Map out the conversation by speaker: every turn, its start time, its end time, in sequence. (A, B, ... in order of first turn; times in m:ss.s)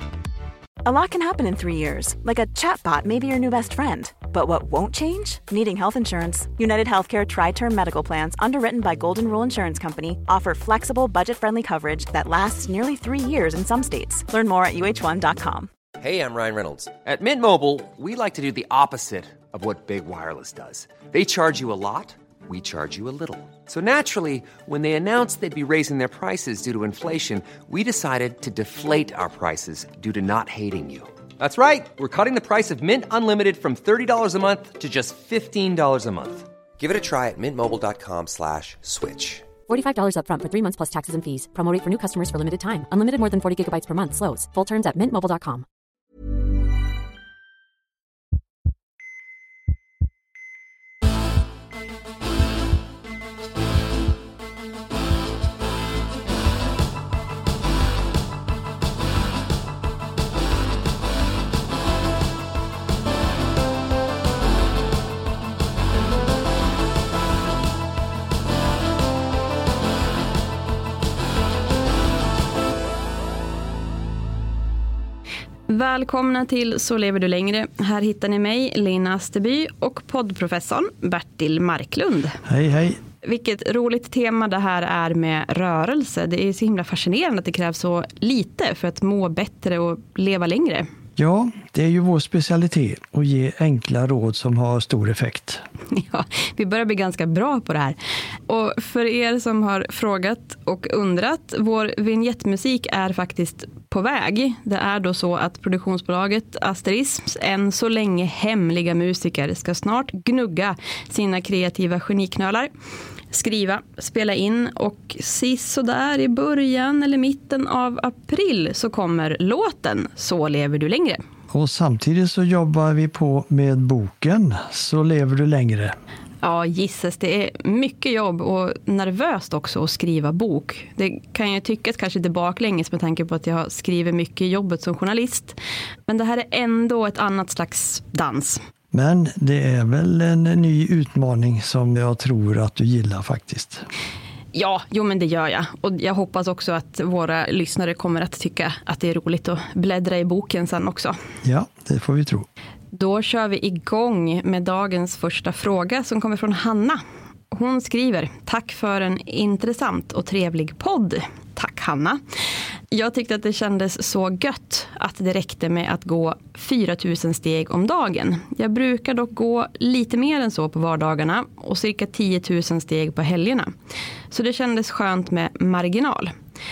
0:00.8-0:15.7 A
0:16.0-0:39.5 B
0:39.7-0:45.7 C
1:15.7-1:22.4 D
1:22.5-1:23.0 E
1:23.2-1:30.9 D
1:31.2-1:35.6 E
1:35.9-1:38.0 D
1:38.5-1:52.7 D
1:53.3-2:01.2 D
2:01.5-2:06.0 E
2:06.4-2:18.6 D
2:18.9-2:23.8 E
2:24.5-2:31.2 D
2:31.4-2:32.5 E
2:32.9-2:42.2 D
2:42.9-2:53.7 D
2:54.3-2:56.3 D